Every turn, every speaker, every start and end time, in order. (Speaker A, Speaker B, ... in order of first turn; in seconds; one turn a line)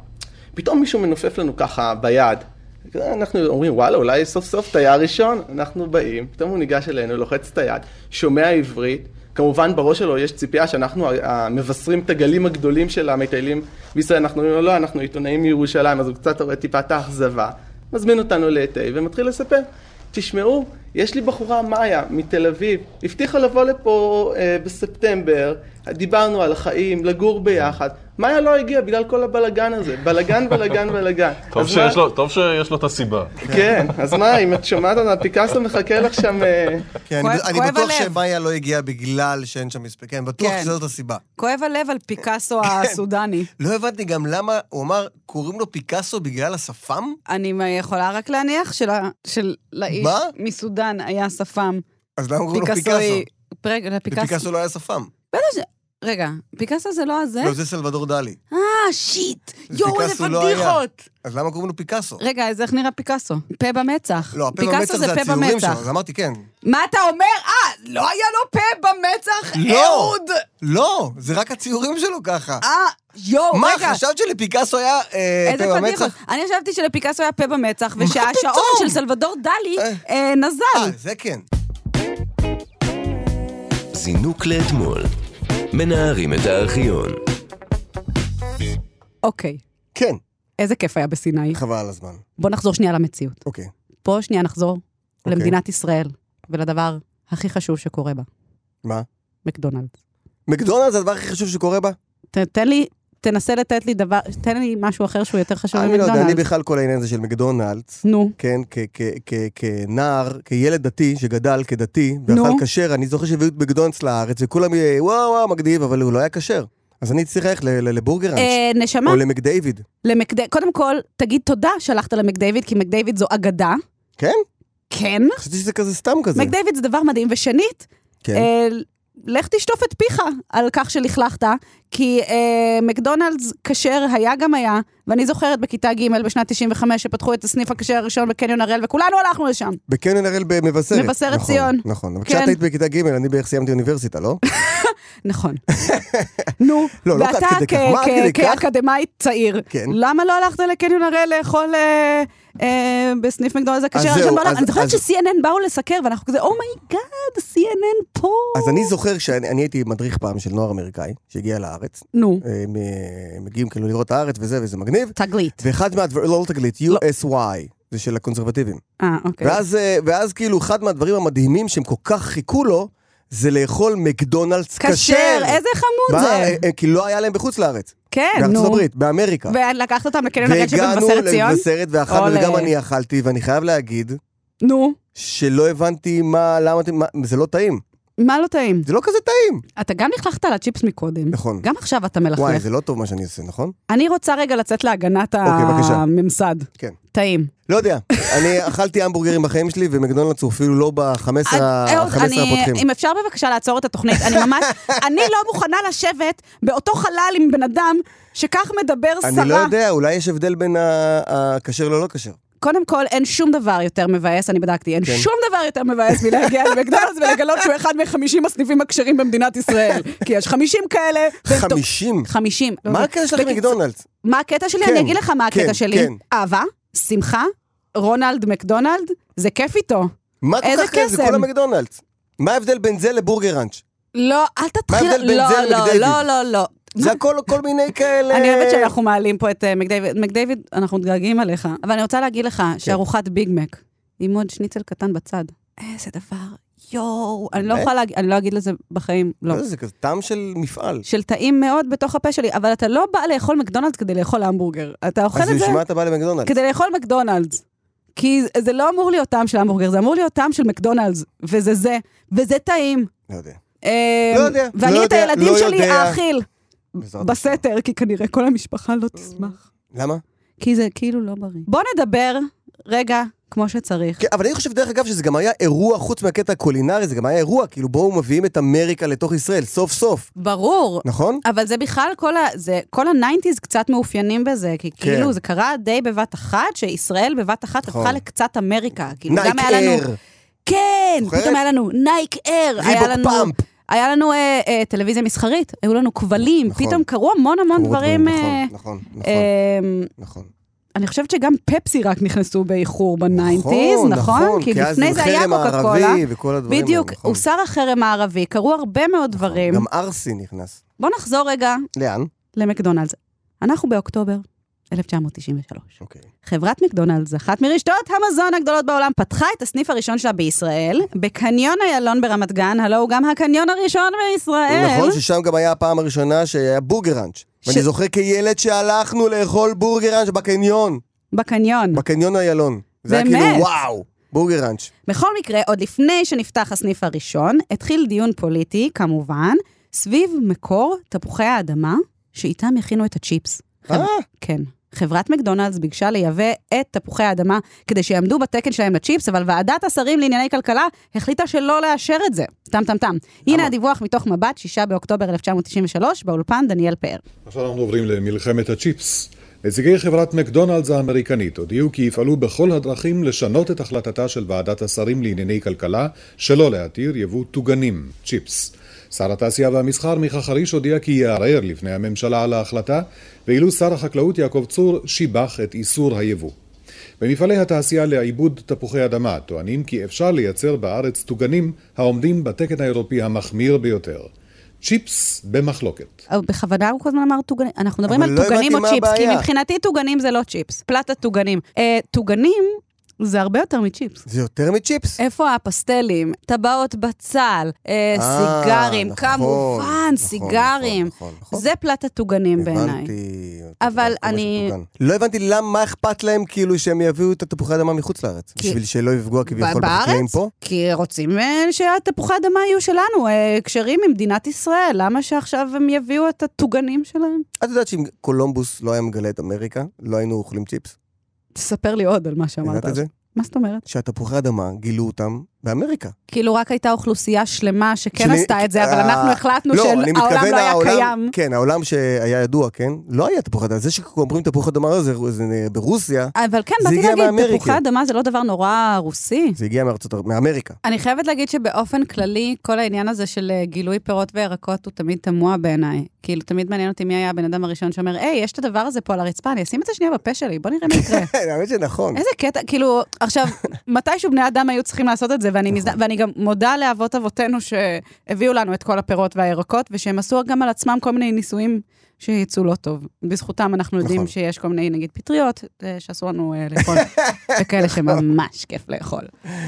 Speaker A: 0.5-32.0
Speaker B: 31.5-33.5
Speaker A: 33.4-36.9
Speaker C: 37.0-41.2
Speaker D: 37.2-38.1
Speaker D: 40.4-40.7
Speaker D: 41.4-43.5
Speaker C: 42.6-43.0
Speaker C: 43.6-47.2
Speaker D: 47.3-51.8
Speaker C: 49.9-50.3
Speaker C: 52.2-53.2
Speaker D: 52.5-54.4
Speaker C: 54.1-55.1
Speaker D: 55.3-57.5
Speaker C: 57.4-58.4
Speaker D: 58.5-61.0
Speaker C: 59.7-62.2
Speaker D: 62.2-65.8
Speaker C: 64.3-66.4
Speaker D: 66.6-70.4
Speaker C: 69.5-72.6
Speaker D: 72.6-74.0
Speaker C: 73.5-76.1
Speaker D: 75.4-80.9
Speaker C: 78.0-79.0
Speaker C: 79.8-80.0
Speaker C: 80.7-81.4
Speaker E: 83.9-85.1
Speaker E: 85.7-87.2
Speaker D: 89.2-89.6
Speaker C: 89.9-90.2
Speaker D: 90.6-91.6
Speaker C: 91.5-92.2
Speaker D: 92.4-93.4
Speaker C: 93.4-93.7
Speaker D: 94.0-98.3
Speaker C: 95.2-95.5
Speaker D: 99.4-99.9
Speaker C: 100.5-102.0
Speaker D: 102.3-106.4
Speaker C: 105.7-119.8
Speaker D: 108.0-108.3
Speaker D: 112.3-112.6
Speaker D: 118.3-119.2
Speaker D: 120.0-123.8
Speaker C: 124.2-124.4
Speaker D: 124.9-125.4
Speaker C: 125.4-126.5
Speaker D: 126.3-139.8
Speaker C: 128.2-128.5
Speaker C: 139.9-144.4
Speaker D: 140.9-142.6
Speaker D: 144.5-145.6
Speaker C: 145.7-148.6
Speaker D: 146.6-158.9
Speaker C: 149.7-150.0
Speaker C: 153.9-155.0
Speaker C: 158.5-168.8
Speaker D: 162.1-162.4
Speaker D: 165.2-165.6
Speaker D: 169.0-169.6
Speaker C: 169.4-179.5
Speaker D: 174.8-176.6
Speaker D: 178.1-178.8
Speaker D: 179.5-182.7
Speaker C: 180.4-184.2
Speaker D: 184.6-185.0
Speaker C: 185.1-187.8
Speaker D: 188.2-188.9
Speaker C: 188.8-189.6
Speaker D: 189.8-192.6
Speaker C: 191.3-191.7
Speaker C: 192.3-193.7
Speaker D: 193.9-197.5
Speaker C: 195.4-196.0
Speaker C: 197.7-202.8
Speaker D: 198.2-198.5
Speaker D: 201.5-209.7
Speaker C: 204.1-204.6
Speaker C: 209.2-212.4
Speaker D: 212.6-230.1
Speaker C: 216.3-216.8
Speaker C: 221.4-222.3
Speaker C: 222.8-224.0
Speaker C: 224.8-226.2
Speaker C: 230.4-233.8
Speaker D: 230.6-231.5
Speaker D: 234.1-237.2
Speaker C: 234.9-236.2
Speaker C: 237.0-238.9
Speaker D: 238.3-249.6
Speaker C: 247.6-247.9
Speaker C: 249.5-251.0
Speaker D: 251.1-255.8
Speaker C: 255.3-256.5
Speaker D: 256.4-257.6
Speaker D: 258.1-263.1
Speaker C: 263.3-263.6
Speaker D: 263.8-266.4
Speaker C: 264.3-266.2
Speaker C: 267.0-267.6
Speaker D: 267.2-269.6
Speaker C: 269.9-270.2
Speaker D: 270.6-274.2
Speaker C: 274.2-280.3
Speaker D: 280.4-290.0
Speaker C: 281.0-281.4
Speaker C: 285.0-285.3
Speaker C: 287.9-288.2
Speaker C: 289.3-290.2
Speaker D: 290.6-298.7
Speaker C: 291.2-291.6
Speaker C: 292.8-293.6
Speaker C: 296.4-297.0
Speaker C: 297.7-299.5
Speaker D: 299.2-300.1
Speaker C: 300.1-300.5
Speaker D: 300.9-309.9
Speaker C: 303.3-307.4
Speaker C: 309.3-310.8
Speaker D: 311.0-311.9
Speaker C: 311.9-312.3
Speaker D: 312.5-325.2
Speaker C: 324.7-331.0
Speaker D: 331.3-332.0
Speaker C: 331.9-334.9
Speaker D: 333.1-333.7
Speaker D: 335.1-357.2
Speaker C: 343.9-344.2
Speaker C: 353.5-353.7
Speaker F: 357.4-376.5
Speaker F: 377.2-384.3
Speaker F: 384.8-386.2
Speaker D: 386.3-394.2
Speaker C: 388.1-389.5
Speaker C: 394.2-395.2
Speaker D: 395.2-403.1
Speaker C: 398.1-401.6
Speaker C: 402.6-410.5
Speaker D: 403.8-404.7
Speaker D: 409.4-417.4
Speaker C: 417.6-420.9
Speaker D: 421.5-423.8
Speaker C: 422.6-423.1
Speaker C: 423.9-426.1
Speaker D: 426.3-431.3
Speaker C: 428.2-437.8
Speaker D: 436.4-439.6
Speaker C: 439.6-440.8
Speaker D: 440.8-451.3
Speaker C: 450.9-452.2
Speaker D: 452.1-469.3
Speaker C: 464.0-464.3
Speaker C: 466.9-468.2